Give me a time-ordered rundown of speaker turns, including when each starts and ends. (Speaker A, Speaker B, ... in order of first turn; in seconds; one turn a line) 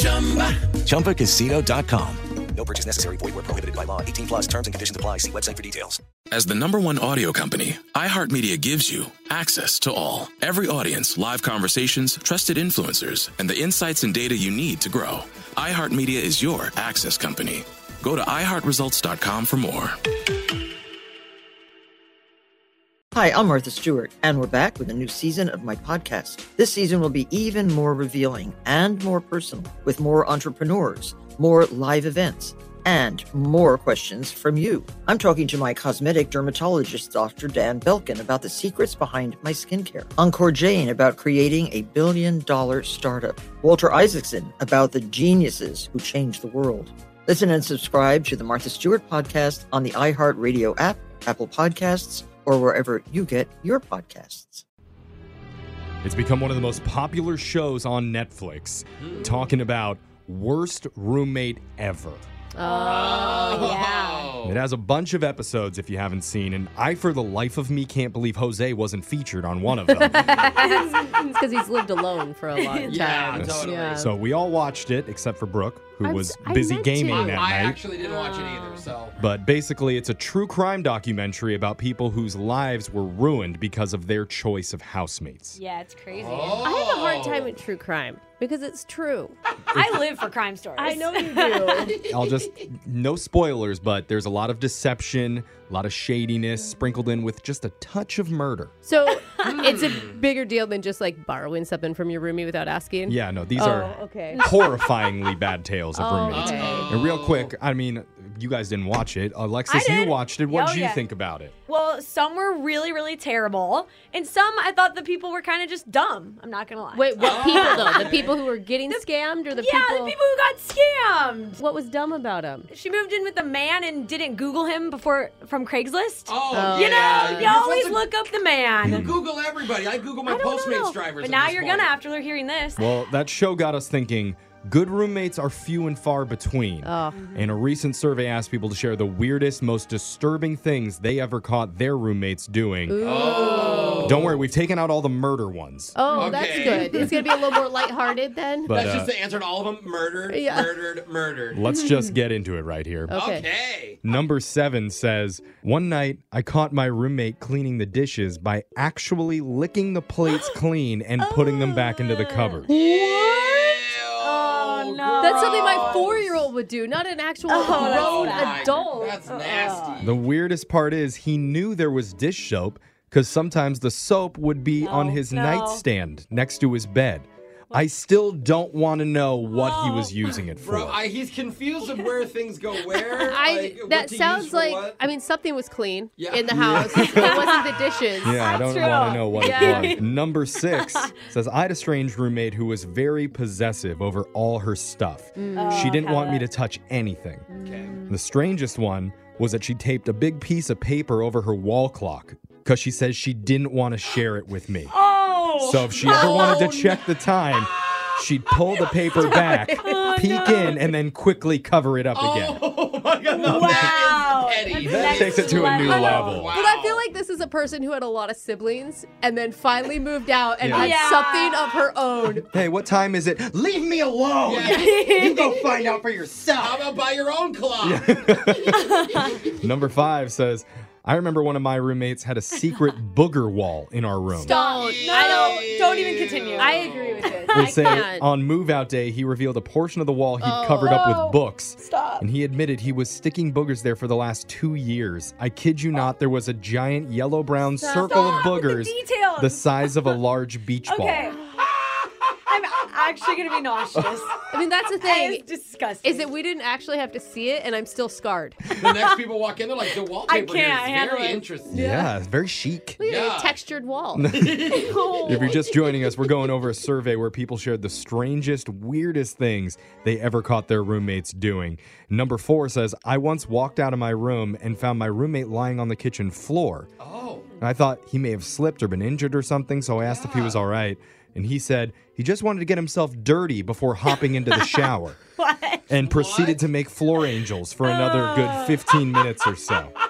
Speaker A: 0.8-6.0
Speaker B: 6.3-20.0
Speaker C: 23.1-54.6
Speaker D: 56.0-62.3
Speaker E: 59.0-59.3
Speaker F: 62.5-63.8
Speaker G: 62.6-64.4
Speaker E: 62.8-64.6
Speaker D: 64.4-70.5
Speaker F: 69.9-74.1
Speaker G: 70.6-71.0
Speaker G: 72.5-73.4
Speaker E: 72.9-74.0
Speaker D: 73.3-77.8
Speaker F: 76.0-77.4
Speaker E: 77.3-79.2
Speaker G: 77.9-78.9
Speaker D: 79.2-85.6
Speaker G: 85.5-86.8
Speaker E: 86.1-87.5
Speaker F: 86.6-89.3
Speaker G: 89.7-91.9
Speaker F: 90.8-92.0
Speaker D: 92.1-98.7
Speaker F: 98.8-104.5
Speaker E: 99.4-100.2
Speaker D: 103.1-111.5
Speaker F: 106.0-106.9
Speaker E: 106.3-107.5
Speaker G: 109.7-111.0
Speaker G: 111.7-121.6
Speaker F: 116.9-120.2
Speaker E: 117.2-118.4
Speaker F: 121.6-122.7
Speaker G: 122.7-129.2
Speaker E: 126.3-132.0
Speaker F: 126.5-127.6
Speaker D: 128.8-129.2
Speaker G: 130.3-132.9
Speaker D: 132.8-143.1
Speaker F: 136.8-137.2
Speaker G: 137.2-137.5
Speaker F: 142.9-144.2
Speaker E: 143.0-144.5
Speaker G: 143.4-143.9
Speaker D: 144.0-146.1
Speaker F: 146.0-148.8
Speaker E: 146.2-147.6
Speaker G: 146.8-147.2
Speaker D: 148.7-149.1
Speaker E: 148.7-151.6
Speaker F: 150.3-150.8
Speaker D: 151.5-153.2
Speaker G: 151.8-152.1
Speaker F: 153.1-153.5
Speaker E: 153.1-154.0
Speaker D: 154.0-162.7
Speaker G: 160.3-160.6
Speaker G: 161.2-166.2
Speaker E: 162.7-166.5
Speaker F: 165.2-169.2
Speaker G: 167.5-170.1
Speaker E: 167.7-170.2
Speaker D: 170.0-181.0
Speaker G: 174.8-175.8
Speaker G: 179.5-180.4
Speaker E: 180.6-185.0
Speaker G: 181.8-182.2
Speaker G: 182.9-183.2
Speaker F: 183.2-188.5
Speaker E: 186.2-187.0
Speaker D: 186.5-187.4
Speaker G: 187.1-187.8
Speaker D: 188.2-197.5
Speaker G: 188.3-191.1
Speaker F: 189.5-189.9
Speaker F: 195.4-196.0
Speaker G: 195.6-196.5
Speaker G: 197.5-198.2
Speaker E: 197.6-198.0
Speaker D: 198.1-205.0
Speaker G: 204.9-207.0
Speaker D: 205.6-212.6
Speaker E: 206.1-206.8
Speaker E: 207.7-208.1
Speaker G: 209.1-210.9
Speaker F: 209.2-210.2
Speaker E: 212.1-217.1
Speaker G: 213.3-216.6
Speaker D: 213.4-214.0
Speaker D: 214.8-216.5
Speaker F: 216.5-222.5
Speaker D: 220.6-221.0
Speaker G: 220.7-221.9
Speaker D: 222.5-226.8
Speaker E: 224.4-224.9
Speaker G: 224.7-225.8
Speaker E: 226.6-228.1
Speaker D: 227.8-229.0
Speaker G: 228.8-229.3
Speaker D: 229.6-234.6
Speaker F: 234.3-235.7
Speaker G: 234.4-237.8
Speaker E: 234.5-237.5
Speaker F: 236.6-238.3
Speaker D: 237.5-251.3
Speaker F: 240.4-241.0
Speaker G: 240.8-242.2
Speaker F: 247.8-248.5
Speaker G: 248.0-250.2
Speaker G: 250.9-251.7
Speaker G: 252.5-254.4
Speaker F: 254.5-255.4
Speaker G: 255.0-256.3
Speaker F: 256.0-258.6
Speaker G: 258.6-259.2
Speaker E: 258.8-261.8
Speaker G: 260.2-261.5
Speaker F: 261.7-262.1
Speaker D: 261.7-263.0
Speaker F: 263.0-264.3
Speaker E: 263.0-263.6
Speaker D: 264.1-276.9
Speaker E: 264.4-264.9
Speaker G: 264.9-265.6
Speaker E: 277.0-277.5
Speaker D: 277.6-285.2
Speaker E: 280.0-280.6
Speaker G: 284.1-285.9
Speaker D: 285.9-289.9
Speaker E: 286.0-286.7
Speaker G: 287.8-288.9